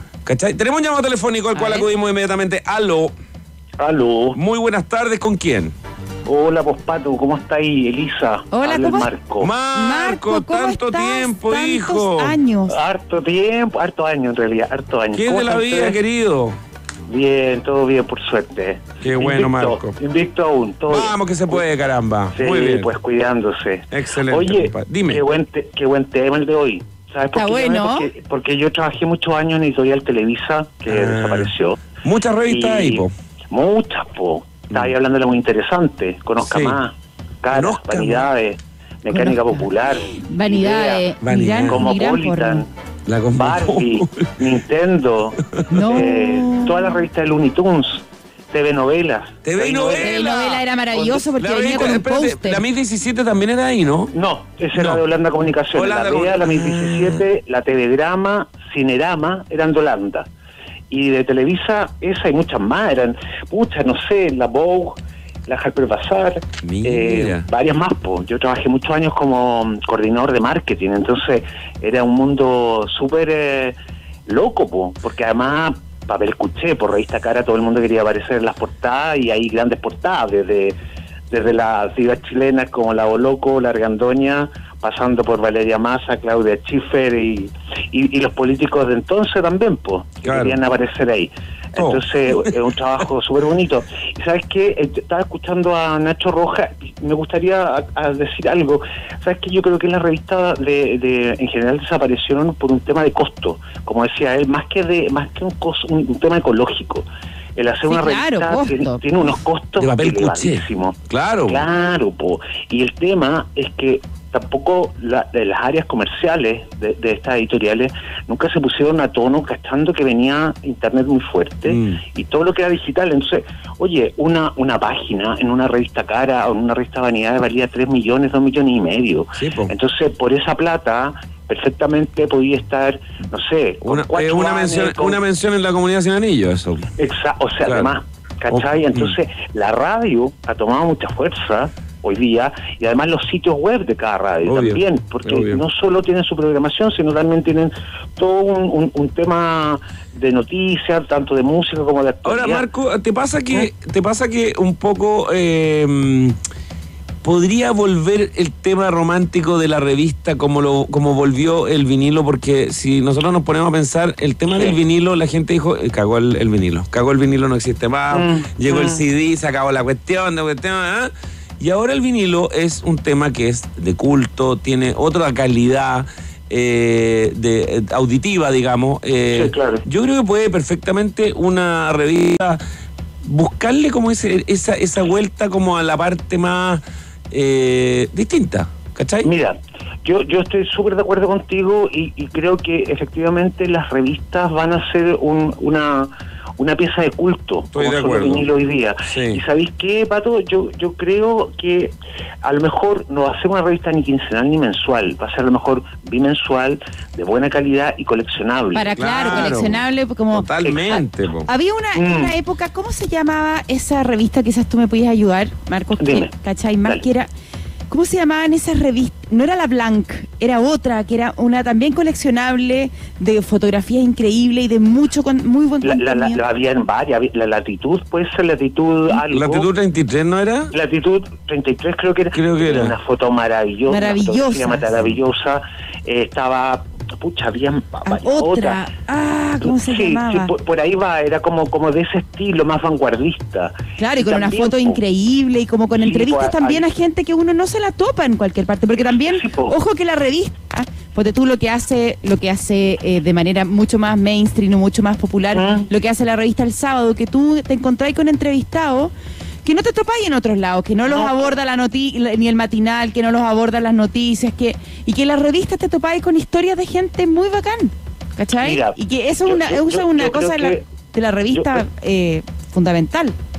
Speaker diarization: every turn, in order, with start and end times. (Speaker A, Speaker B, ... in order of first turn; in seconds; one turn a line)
Speaker A: 0.2-3.1
Speaker B: 1.5-1.9
Speaker C: 3.8-4.4
Speaker A: 4.3-5.7
Speaker C: 6.2-9.5
Speaker B: 8.5-9.1
Speaker A: 9.4-12.3
Speaker B: 9.7-12.7
Speaker C: 12.7-16.0
Speaker A: 15.1-16.6
Speaker C: 17.1-21.6
Speaker A: 19.0-20.0
Speaker A: 20.9-22.9
Speaker C: 22.3-31.8
Speaker A: 23.9-25.2
Speaker B: 27.3-28.1
Speaker A: 30.9-31.5
Speaker A: 32.0-33.1
Speaker C: 32.5-41.1
Speaker A: 36.4-36.8
Speaker A: 37.5-38.3
Speaker B: 39.1-42.6
Speaker A: 41.2-41.8
Speaker C: 41.6-42.7
Speaker A: 43.1-44.4
Speaker C: 43.3-50.2
Speaker B: 45.7-47.0
Speaker A: 49.4-54.1
Speaker B: 49.9-52.6
Speaker C: 54.1-60.3
Speaker A: 54.7-55.0
Speaker A: 55.7-57.2
Speaker C: 60.9-80.7
Speaker A: 66.6-67.5
Speaker C: 81.3-135.2
Speaker A: 90.2-90.6
Speaker A: 91.8-92.5
Speaker B: 107.8-109.0
Speaker A: 109.8-111.6
Speaker A: 121.7-122.0
Speaker A: 129.4-129.7
Speaker A: 133.8-136.9
Speaker C: 137.0-152.7
Speaker A: 137.6-137.9
Speaker A: 138.5-139.1
Speaker A: 144.4-145.6
Speaker A: 152.2-156.3
Speaker A: 157.2-182.6
Speaker C: 164.5-164.8
Speaker C: 168.1-169.0
Speaker C: 179.3-179.8
Speaker A: 183.2-189.3
Speaker C: 189.2-209.5
Speaker A: 197.7-198.5
Speaker A: 199.1-199.4
Speaker B: 208.7-210.5
Speaker A: 208.9-211.5
Speaker C: 210.6-211.0
Speaker B: 211.4-217.3
Speaker C: 211.9-212.3
Speaker C: 216.0-216.3
Speaker B: 217.9-226.4
Speaker C: 225.8-229.7
Speaker A: 229.2-230.7
Speaker C: 230.7-238.8
Speaker A: 232.3-232.9
Speaker B: 233.9-235.0
Speaker B: 238.1-240.5
Speaker C: 239.6-245.0
Speaker B: 244.0-259.1
Speaker C: 245.9-246.9
Speaker C: 249.2-249.8
Speaker C: 255.5-255.9
Speaker B: 259.6-273.3
Speaker C: 261.0-261.6
Speaker C: 268.6-270.8
Speaker C: 271.5-271.8